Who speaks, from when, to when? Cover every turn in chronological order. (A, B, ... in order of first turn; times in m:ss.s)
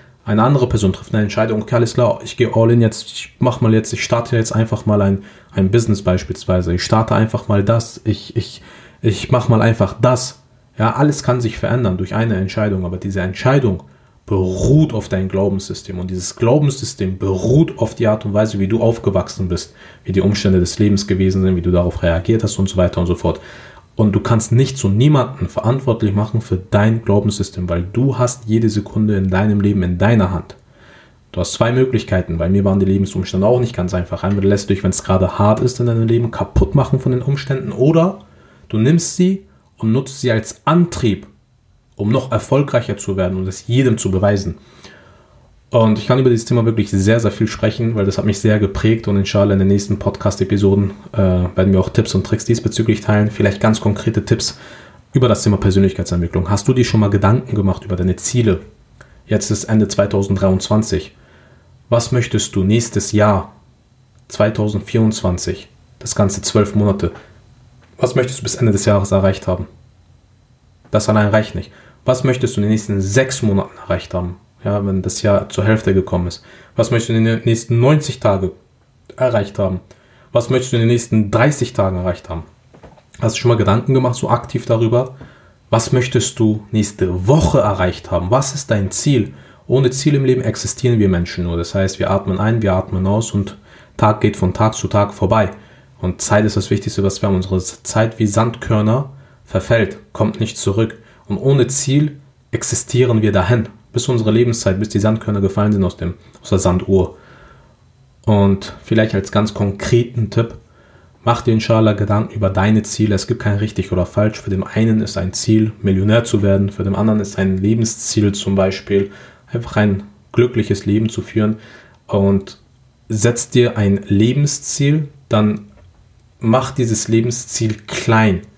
0:00.2-0:23.4 A
0:24.0-0:30.6 A
0:31.3-0:41.3 A
0:42.0-0:44.6 A
0:45.7-0:54.6 A
0:55.1-0:58.6 A
0:59.3-1:01.1 A
1:01.9-1:03.5 A
1:04.3-1:07.1 A
1:08.0-1:09.7 A
1:10.9-1:18.5 A
1:19.2-1:22.4 A
1:23.2-1:25.1 A
1:25.7-1:47.1 A
1:48.2-1:50.6 A
1:51.2-2:05.6 A
2:06.4-2:08.4 A